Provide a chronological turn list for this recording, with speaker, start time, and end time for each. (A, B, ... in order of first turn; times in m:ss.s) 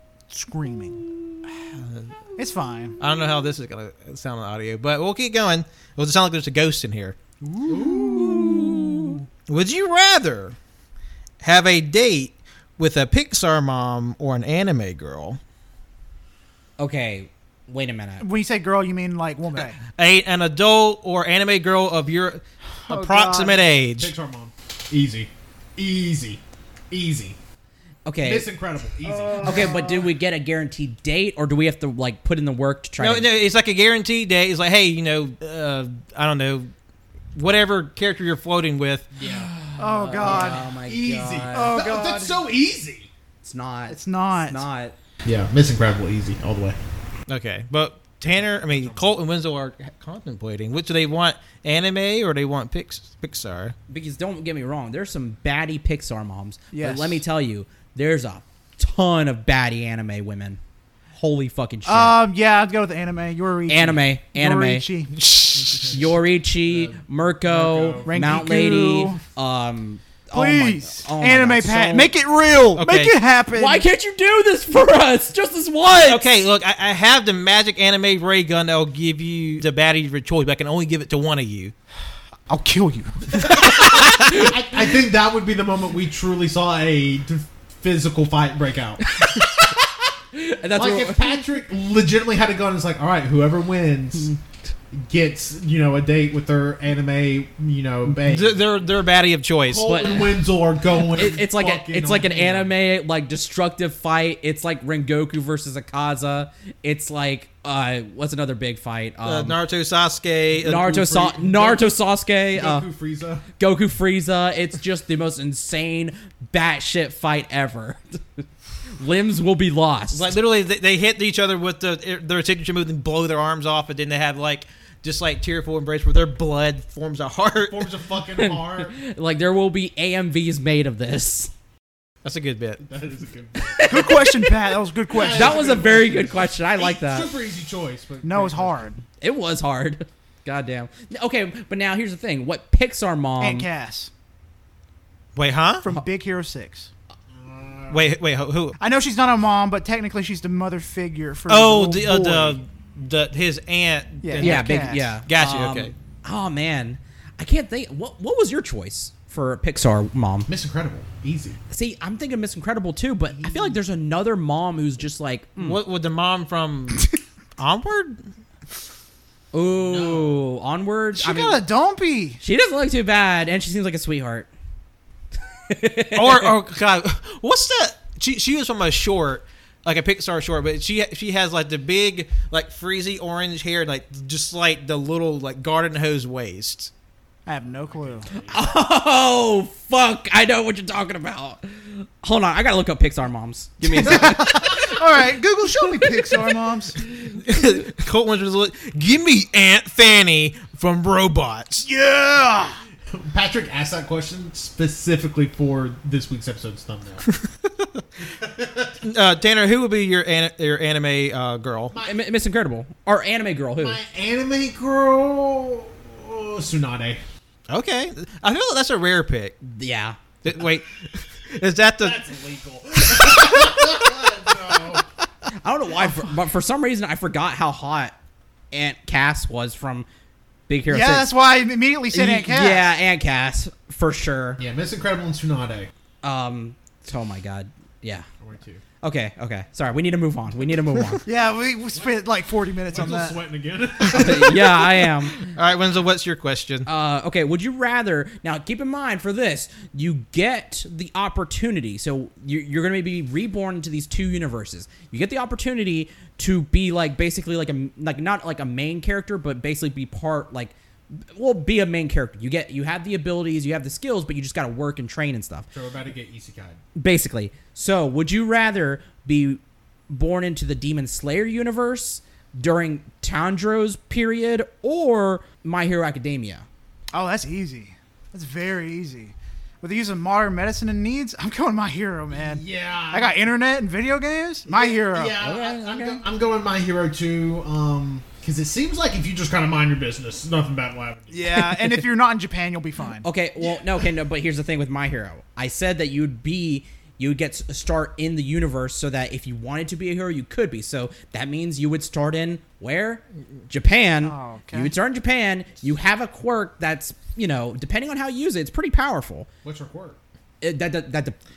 0:00.3-0:01.1 A
0:01.8-0:02.1 B
0:02.4-0:03.0 A
0:03.0-0:07.2 B
0:07.4-0:08.8 A
0:07.7-0:09.1 C
0:08.3-0:09.1 D
0:09.5-0:10.6 B
0:11.4-0:15.4 B
0:16.8-0:18.3 D
0:18.2-0:19.8 A
0:19.6-0:24.1 B
0:22.9-0:23.6 A
0:23.9-0:27.4 C
0:28.1-0:28.5 D
0:28.2-0:29.9 C
0:29.0-0:30.1 A
0:29.4-0:33.3 D
0:33.0-0:36.7 B
0:37.4-0:39.1 B
0:39.1-0:39.5 C
0:39.2-0:41.8 D
0:39.8-0:40.6 A
0:40.2-0:43.1 C
0:41.5-0:42.4 A
0:43.4-0:45.0 D
0:43.9-0:44.7 A
0:45.2-0:46.8 C
0:47.3-0:53.8 B
0:48.2-0:49.1 C
0:53.9-1:00.6 D
0:56.7-0:57.2 A
1:01.2-1:02.2 D
1:01.8-1:05.2 A
1:03.7-1:04.9 D
1:05.2-1:06.0 B
1:05.5-1:08.2 C
1:05.9-1:12.1 D
1:08.0-1:09.2 A
1:10.3-1:13.8 A
1:12.8-1:13.2 B
1:13.5-1:16.3 D
1:15.9-1:21.7 B
1:22.5-1:24.0 A
1:23.3-1:29.4 C
1:23.9-1:24.5 D
1:29.1-1:29.8 D
1:30.3-1:31.5 D
1:30.7-1:34.3 C
1:34.9-1:38.7 C
1:38.2-1:40.0 B
1:39.7-1:42.7 C
1:39.8-1:40.4 D
1:41.1-1:49.6 D
1:49.2-1:51.3 B
1:50.6-1:52.9 D
1:51.1-1:52.0 C
1:52.5-1:53.5 C
1:53.6-1:58.4 D
1:59.0-2:00.3 D
2:00.1-2:07.9 B
2:07.7-2:08.9 C
2:08.4-2:11.5 D
2:12.2-2:12.8 B
2:12.8-2:14.2 C
2:13.6-2:14.5 D
2:13.8-2:15.9 A
2:15.1-2:18.9 C
2:15.2-2:17.3 D
2:18.2-2:19.0 A
2:19.2-2:23.7 D
2:23.4-2:24.1 A
2:25.4-2:25.9 B
2:25.8-2:26.9 A
2:27.3-2:28.1 C
2:27.9-2:28.8 B
2:28.8-2:32.6 A
2:31.5-2:35.9 B
2:34.2-2:35.1 A
2:34.4-2:40.5 D
2:40.5-2:41.6 C
2:41.7-2:45.8 D
2:43.3-2:43.8 C
2:45.6-2:48.2 B
2:49.5-2:51.6 D
2:49.7-2:50.4 C
2:51.2-2:52.4 A
2:52.4-2:54.5 D
2:55.7-2:56.5 D
2:56.1-3:06.9 B
3:07.5-3:08.3 A
3:07.6-3:08.8 C
3:08.5-3:14.9 D
3:13.9-3:17.0 A
3:16.0-3:16.3 D
3:17.3-3:21.9 B
3:21.8-3:22.8 A
3:23.1-3:27.3 C
3:27.3-3:28.0 B
3:28.3-3:29.0 C
3:29.0-3:32.0 B
3:31.9-3:32.3 C
3:32.0-3:34.0 D
3:33.8-3:37.2 C
3:37.7-3:39.6 B
3:39.6-3:40.2 D
3:40.4-3:42.2 B
3:42.0-3:45.1 C
3:45.6-3:48.2 D
3:48.7-3:50.1 D
3:50.7-3:51.3 D
3:50.9-3:52.9 A
3:52.1-3:54.6 D
3:54.6-3:55.9 C
3:56.2-3:58.3 D
3:58.4-3:58.8 C
3:59.0-4:01.2 D
4:01.2-4:03.4 A
4:02.9-4:04.8 C
4:04.1-4:05.4 D
4:05.4-4:06.9 B
4:06.9-4:20.8 D
4:21.3-4:25.7 D
4:25.7-4:26.8 C
4:27.0-4:36.7 D
4:37.1-4:45.4 A
4:42.3-4:43.4 C
4:44.7-4:51.7 C
4:45.4-4:46.2 D
4:51.3-4:53.3 A
4:53.2-5:09.5 D
4:53.6-4:54.1 C
5:04.2-5:05.0 A
5:09.6-5:10.2 C
5:10.6-5:11.4 D